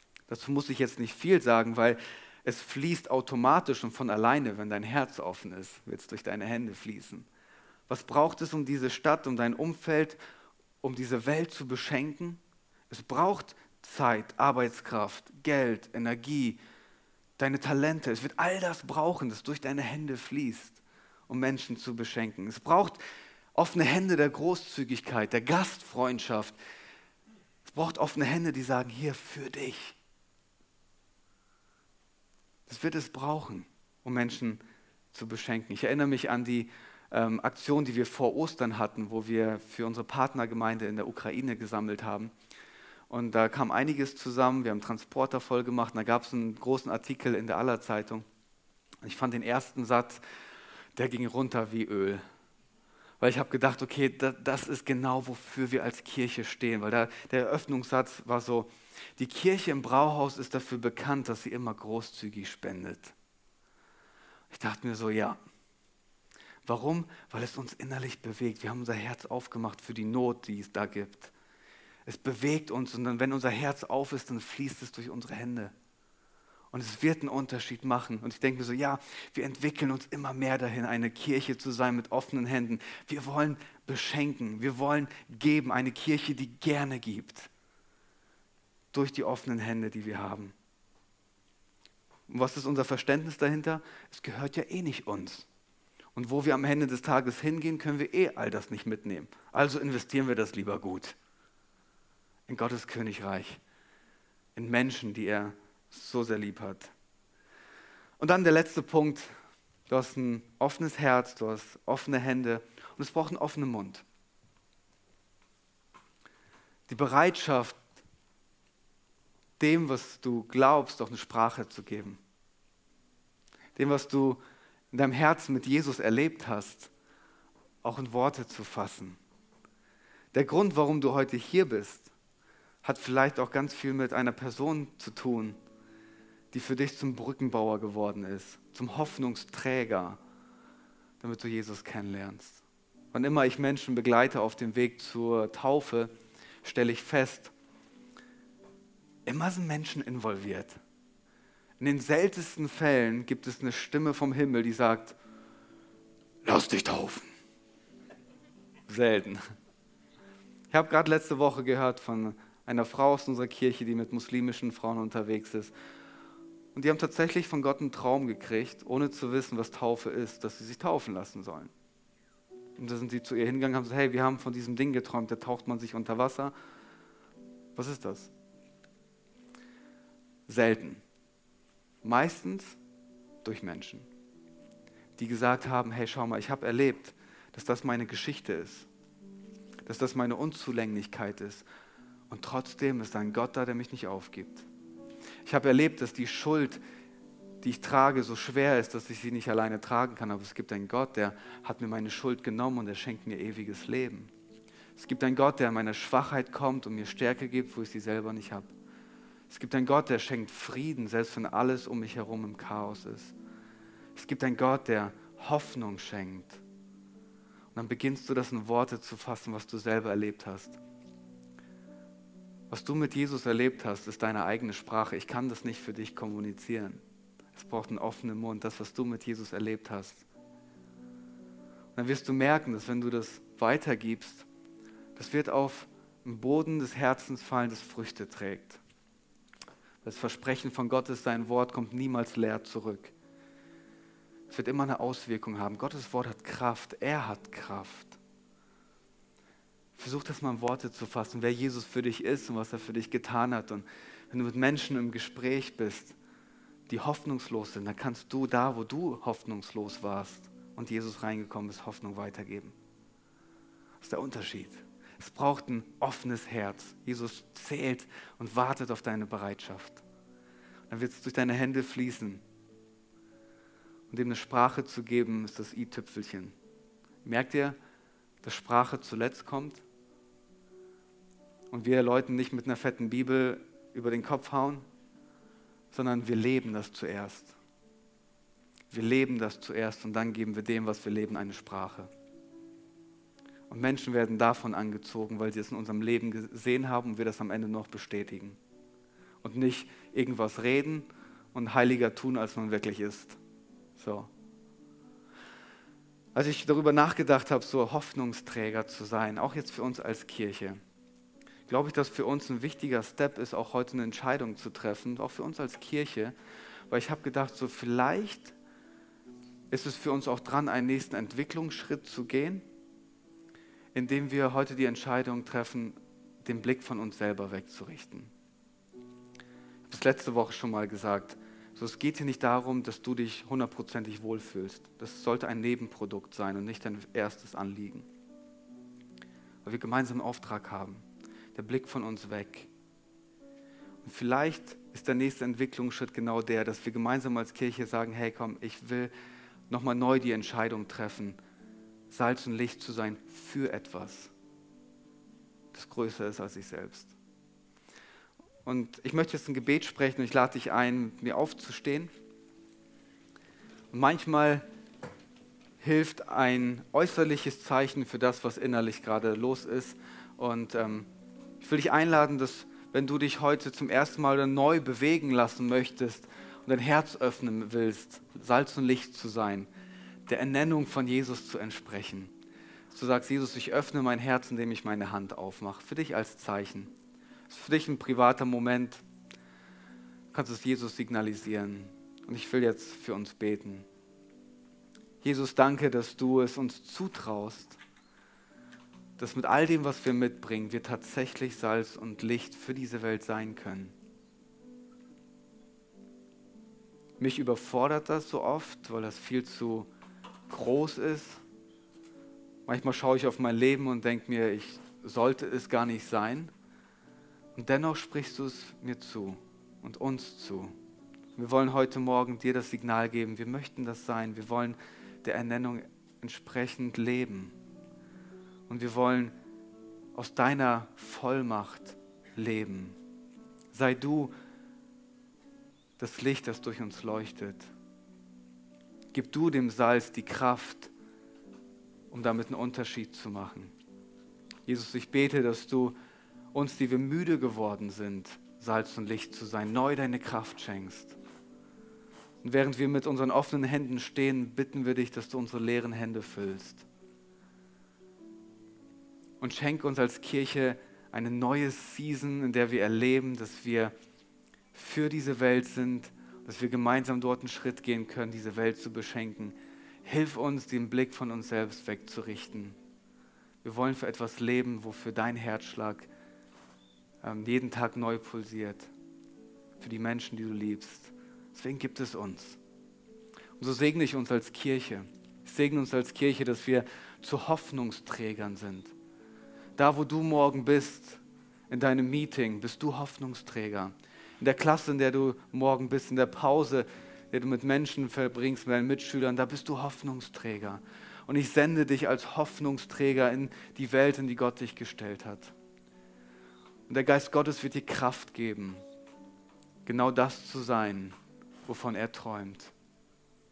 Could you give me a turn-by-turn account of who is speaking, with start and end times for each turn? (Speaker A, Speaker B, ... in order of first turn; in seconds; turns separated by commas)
Speaker A: 0.3-7.3, Speaker A: 7.9-10.2, Speaker A: 10.8-16.6, Speaker A: 17.4-23.0, Speaker A: 23.6-26.6, Speaker A: 27.6-30.0, Speaker A: 32.7-34.6, Speaker A: 35.1-42.3, Speaker A: 43.1-48.2, Speaker A: 49.0-50.2, Speaker A: 51.0-52.2, Speaker A: 53.2-63.1, Speaker A: 64.5-65.4, Speaker A: 66.7-71.3, Speaker A: 72.1-75.7, Speaker A: 76.7-87.5, Speaker A: 88.9-90.5, Speaker A: 92.3-95.5, Speaker A: 96.2-101.2, Speaker A: 102.5-103.6, Speaker A: 104.6-106.9, Speaker A: 108.2-109.3, Speaker A: 109.9-114.0, Speaker A: 116.9-117.8, Speaker A: 119.6-122.2, Speaker A: 123.8-124.4, Speaker A: 124.9-126.9, Speaker A: 127.8-129.2, Speaker A: 130.3-132.1, Speaker A: 132.8-135.6, Speaker A: 136.5-140.2, Speaker A: 141.2-146.1, Speaker A: 146.6-147.5, Speaker A: 149.3-150.8, Speaker A: 151.8-155.2, Speaker A: 156.4-157.3, Speaker A: 158.9-159.4, Speaker A: 160.7-165.7, Speaker A: 166.8-171.7, Speaker A: 172.8-176.5, Speaker A: 177.8-178.3, Speaker A: 180.5-181.0, Speaker A: 182.0-182.8, Speaker A: 183.4-184.1, Speaker A: 185.2-188.9, Speaker A: 189.9-191.7, Speaker A: 192.3-194.7, Speaker A: 195.4-196.8, Speaker A: 197.6-204.3, Speaker A: 205.0-208.7, Speaker A: 209.5-213.3, Speaker A: 214.2-216.6, Speaker A: 217.7-220.8, Speaker A: 222.7-227.0, Speaker A: 227.5-230.3, Speaker A: 231.9-234.5, Speaker A: 235.2-238.8, Speaker A: 240.0-243.1, Speaker A: 244.5-248.2, Speaker A: 250.0-256.2, Speaker A: 256.9-262.8, Speaker A: 264.0-270.0, Speaker A: 270.9-272.4, Speaker A: 274.1-276.5, Speaker A: 277.2-277.8, Speaker A: 278.4-279.8, Speaker A: 281.7-284.8, Speaker A: 285.9-287.6, Speaker A: 288.9-292.1, Speaker A: 293.7-298.6, Speaker A: 299.4-303.4, Speaker A: 304.0-304.3, Speaker A: 306.4-310.8, Speaker A: 311.7-316.3, Speaker A: 316.9-318.6, Speaker A: 319.7-322.6, Speaker A: 323.9-328.3, Speaker A: 329.9-338.1, Speaker A: 339.6-342.7, Speaker A: 344.0-349.1, Speaker A: 349.7-351.4, Speaker A: 352.1-354.3, Speaker A: 355.7-357.1, Speaker A: 358.6-362.1, Speaker A: 363.9-364.6, Speaker A: 365.8-371.1, Speaker A: 371.6-379.7, Speaker A: 380.3-382.3, Speaker A: 382.9-386.9, Speaker A: 387.5-389.0, Speaker A: 390.3-393.9, Speaker A: 395.2-397.8, Speaker A: 399.2-403.9, Speaker A: 407.2-409.9, Speaker A: 410.5-411.4, Speaker A: 412.7-416.5, Speaker A: 417.6-420.7, Speaker A: 421.4-427.6, Speaker A: 428.7-429.3, Speaker A: 430.1-433.0, Speaker A: 433.7-434.3, Speaker A: 436.0-437.7, Speaker A: 439.1-440.9, Speaker A: 442.1-443.7, Speaker A: 444.7-446.0, Speaker A: 446.5-451.2, Speaker A: 452.4-456.9, Speaker A: 459.4-463.9, Speaker A: 464.7-472.8, Speaker A: 473.6-476.1, Speaker A: 477.2-478.9, Speaker A: 479.8-482.6, Speaker A: 483.6-488.9, Speaker A: 489.8-505.6, Speaker A: 506.9-508.8, Speaker A: 509.9-512.7